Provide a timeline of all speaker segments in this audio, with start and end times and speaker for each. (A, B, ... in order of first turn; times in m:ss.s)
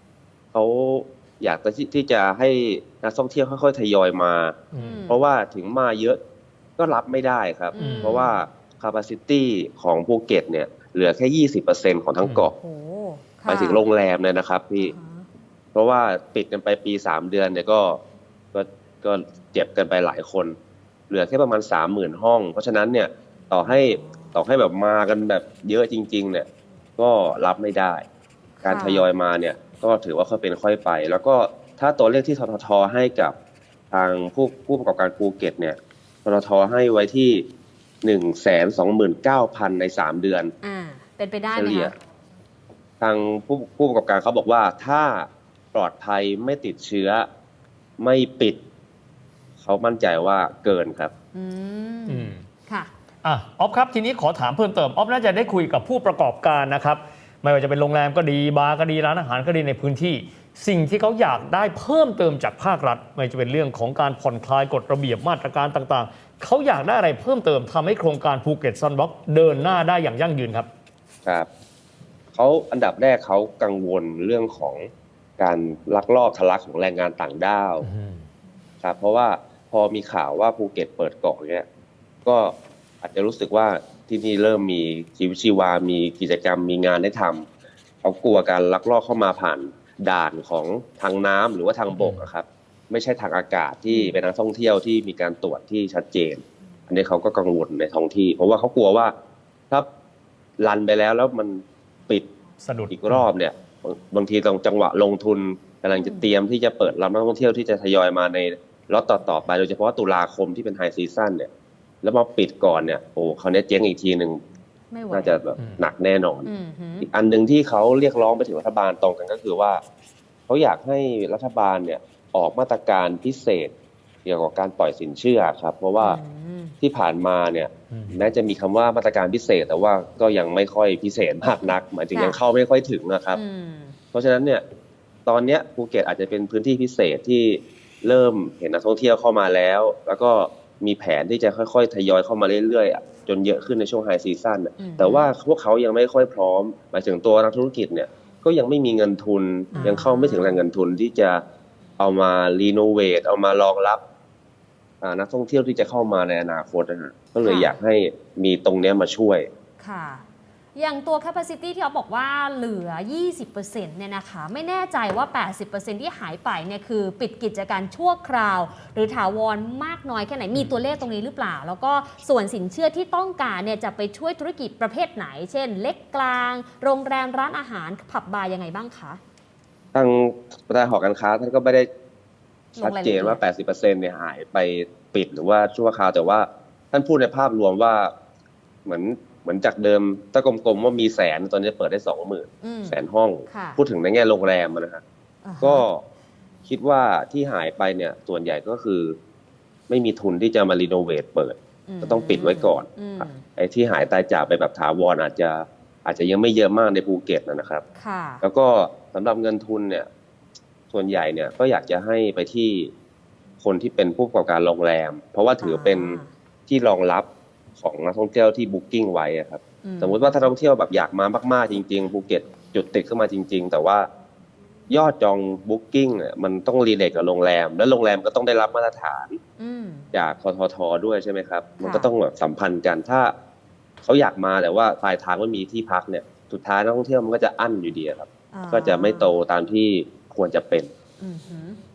0:00.5-0:04.6 A
0:04.7-0:05.0 B
0:04.8-0:05.2 C
0:05.1-0:06.2 A
0:06.8-0:12.5 A
0:07.7-0:08.4 C
0:07.8-0:08.2 B
0:12.2-0:12.5 B
0:12.5-0:13.8 C
0:13.5-0:14.9 A
0:14.8-0:15.3 C
0:15.7-0:18.0 A
0:18.5-0:20.6 A
0:21.1-0:28.0 A
0:23.7-0:24.4 C
0:28.6-0:29.0 C
0:28.6-0:33.3 A
0:33.9-0:37.4 A
0:38.0-0:40.5 A
0:40.6-0:41.9 C
0:41.5-0:41.9 A
0:43.0-0:47.3 A
0:48.0-0:48.6 A
0:49.6-0:51.1 A
0:51.3-0:52.9 C
0:52.1-0:52.4 B
0:53.2-1:10.7 B
1:12.3-1:17.9 A
1:17.8-1:18.2 B
1:18.8-1:21.6 A
1:22.2-1:27.4 A
1:28.0-1:39.1 A
1:31.9-1:32.3 B
1:33.9-1:34.2 C
1:40.6-1:42.3 A
1:42.6-1:43.3 B
1:42.9-1:51.5 A
1:45.9-1:46.3 C
1:52.0-1:54.4 A
1:54.9-1:55.4 C
1:55.1-1:56.5 A
1:55.6-1:55.9 B
1:56.4-1:57.1 C
1:57.0-1:59.8 A
2:00.5-2:03.7 A
2:04.2-2:06.2 A
2:06.0-2:06.7 C
2:06.8-2:13.4 A
2:13.3-2:14.0 C
2:14.1-2:14.6 A
2:15.2-2:31.4 A
2:24.8-2:25.3 C
2:29.7-2:30.6 C
2:32.0-2:34.0 A
2:35.0-2:39.5 A
2:37.4-2:37.8 C
2:39.8-2:40.2 C
2:40.7-2:59.2 C
2:59.9-3:01.9 A
3:02.8-3:03.4 C
3:02.8-3:08.1 A
3:08.8-3:15.0 A
3:12.6-3:13.0 C
3:13.5-3:13.8 C
3:15.4-3:15.8 C
3:15.6-3:16.0 A
3:16.6-3:19.2 A
3:19.9-3:27.8 A
3:21.9-3:23.4 C
3:28.0-3:28.4 C
3:28.4-3:30.1 A
3:30.9-3:32.9 A
3:33.6-3:37.3 A
3:35.6-3:36.3 C
3:37.8-3:44.1 A
3:39.8-3:40.3 C
3:44.9-3:49.4 A
3:49.6-3:50.1 C
3:50.1-3:53.3 A
3:51.8-3:52.1 C
3:54.0-4:00.9 A
3:58.5-3:59.3 C
4:01.2-4:01.8 C